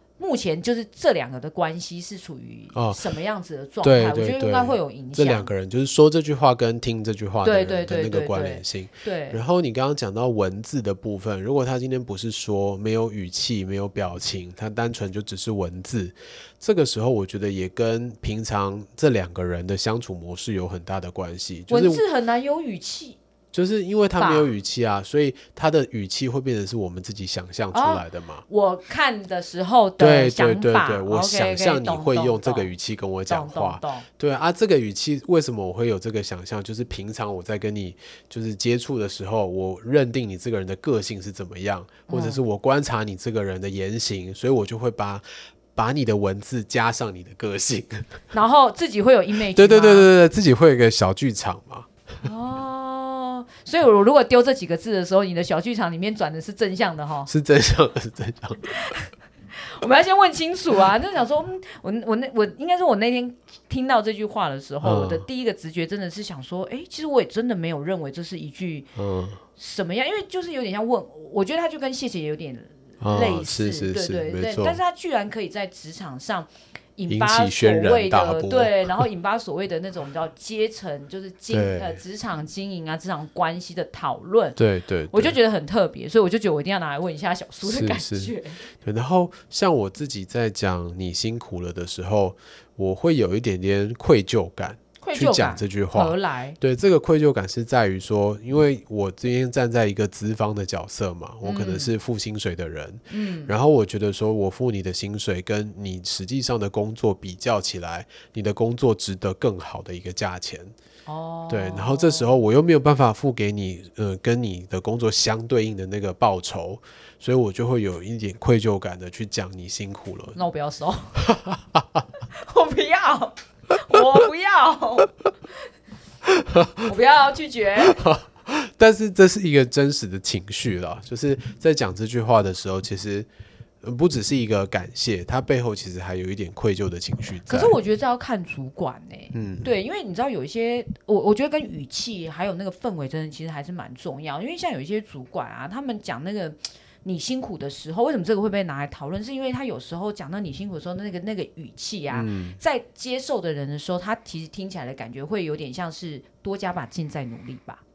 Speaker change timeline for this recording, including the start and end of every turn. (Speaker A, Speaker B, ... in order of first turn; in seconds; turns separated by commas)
Speaker A: 0.2-5.5, Speaker B: 3.8-22.0, Speaker A: 7.4-9.4, Speaker A: 21.7-23.2, Speaker B: 23.5-28.4, Speaker A: 24.2-24.5, Speaker A: 27.7-32.7, Speaker B: 30.0-48.2, Speaker A: 33.3-34.1, Speaker A: 42.1-42.4, Speaker A: 48.3-50.1, Speaker B: 49.5-51.9, Speaker A: 52.2-57.3, Speaker B: 57.3-58.7, Speaker A: 58.7-59.0, Speaker A: 59.6-68.9, Speaker B: 64.8-65.3, Speaker B: 69.0-69.4, Speaker A: 69.6-84.6, Speaker B: 73.0-74.8, Speaker B: 77.1-79.0, Speaker B: 81.5-82.0, Speaker B: 84.6-85.4, Speaker A: 85.1-88.6, Speaker B: 87.6-110.7, Speaker A: 95.0-96.6, Speaker A: 101.4-101.9, Speaker A: 103.1-103.5, Speaker A: 111.1-112.4, Speaker B: 111.5-120.4, Speaker A: 120.3-121.2, Speaker B: 121.3-122.0, Speaker A: 122.3-125.2, Speaker B: 126.3-126.9, Speaker A: 126.8-128.0, Speaker B: 127.9-133.3, Speaker B: 133.8-137.8, Speaker A: 137.5-157.8, Speaker B: 139.3-139.7, Speaker B: 152.1-152.6